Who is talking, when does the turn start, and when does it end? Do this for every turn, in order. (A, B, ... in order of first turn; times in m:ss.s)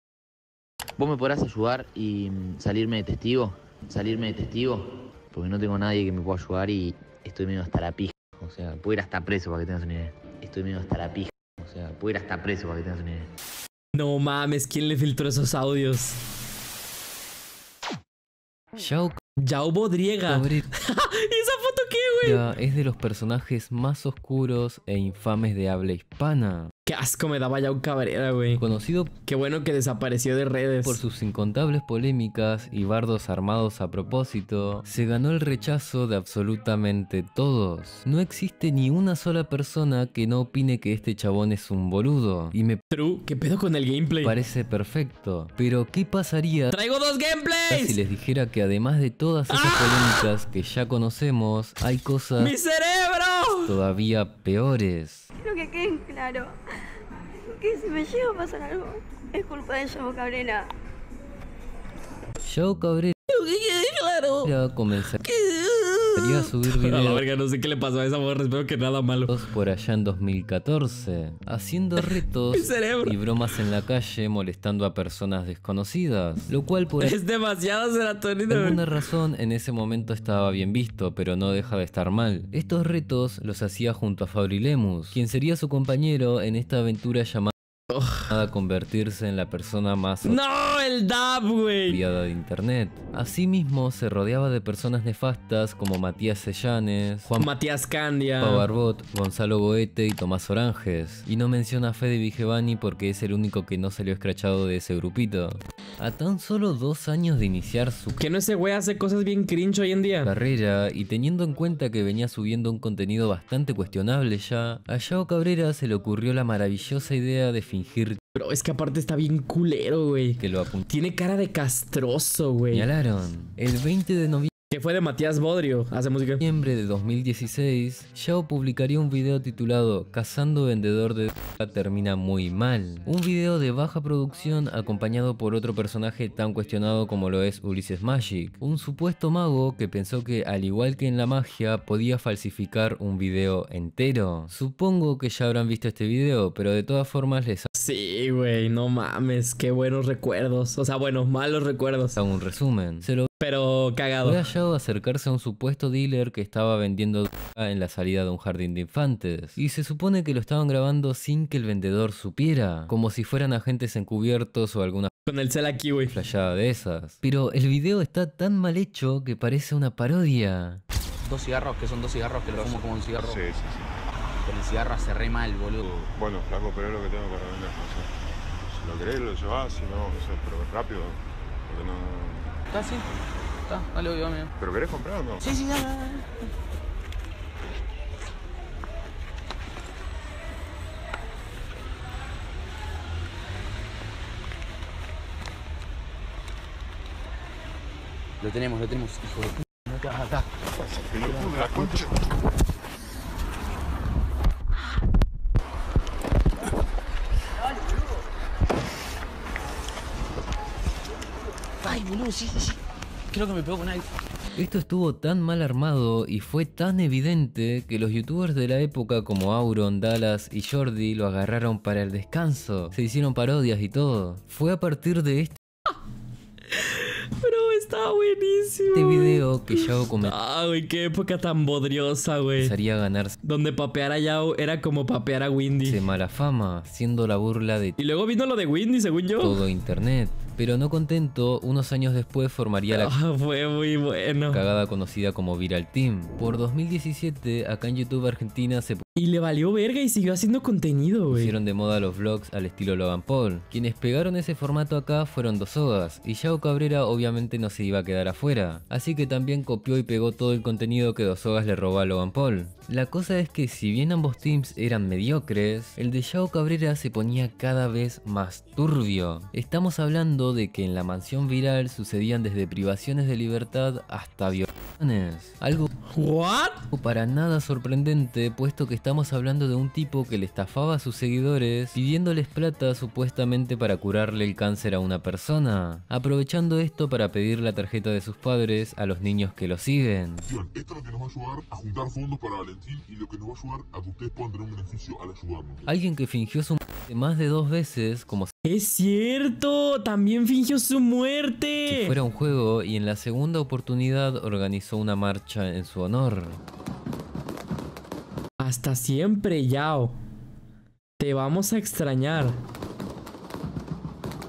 0:01.0-0:13.3 A
0:14.0-0:16.2 B
0:18.8-0:19.2 C
0:19.4-0:22.4 B
0:20.3-0:20.6 C
0:22.2-0:26.7 C
0:26.9-0:28.6 B
0:28.6-0:29.1 C
0:29.2-0:31.0 B
0:30.8-0:42.8 C
0:42.9-0:44.4 B
0:44.2-0:46.8 C
0:46.7-0:48.0 B
0:47.7-0:52.6 C
0:49.5-0:50.3 B
0:52.4-0:53.8 B
0:53.7-0:55.3 C
0:55.4-0:56.5 D
0:57.4-1:00.7 D
1:02.4-1:03.2 C
1:03.3-1:04.5 B
1:04.4-1:05.2 C
1:05.1-1:09.3 B
1:06.2-1:07.2 C
1:09.3-1:17.2 C
1:12.0-1:13.2 B
1:17.0-1:18.8 B
1:18.5-1:27.5 C
1:27.9-1:28.3 B
1:28.3-1:30.4 C
1:30.2-1:32.0 B
1:31.9-1:37.5 C
1:37.4-1:38.7 B
1:38.4-1:48.2 C
1:48.2-1:50.3 B
1:50.2-1:58.2 C
1:58.4-2:02.9 B
2:00.4-2:00.9 C
2:02.7-2:04.5 C
2:04.7-2:06.4 B
2:06.4-2:27.7 C
2:27.8-2:32.2 B
2:32.2-2:33.3 C
2:33.4-2:34.4 B
2:34.2-2:45.1 C
2:45.3-2:46.2 B
2:46.1-2:50.8 C
2:51.2-2:53.3 E
2:52.6-2:53.8 F
2:54.4-2:55.8 E
2:55.8-2:58.1 F
2:58.7-3:01.2 F
3:01.7-3:02.5 F
3:02.7-3:03.0 E
3:03.7-3:04.5 E
3:04.8-3:05.4 F
3:05.4-3:06.2 E
3:18.4-3:20.4 E
3:21.1-3:22.1 F
3:31.8-3:32.8 E
3:33.3-3:34.0 E
3:34.6-3:45.6 C
3:46.7-3:52.7 B
3:48.9-3:50.4 C
3:52.6-3:53.4 C
3:53.4-3:56.0 B
3:55.8-3:58.0 C
3:58.0-3:59.6 B
3:59.4-4:03.1 C
4:02.9-4:04.6 B
4:04.5-4:09.0 C
4:09.2-4:11.5 B
4:11.3-4:35.9 C
4:36.1-4:36.8 B
4:36.9-4:50.5 C
4:50.5-4:55.9 G
4:55.9-4:58.5 C
4:58.6-5:02.2 B
5:01.9-5:06.6 C
5:08.6-5:10.1 B
5:11.2-5:12.6 B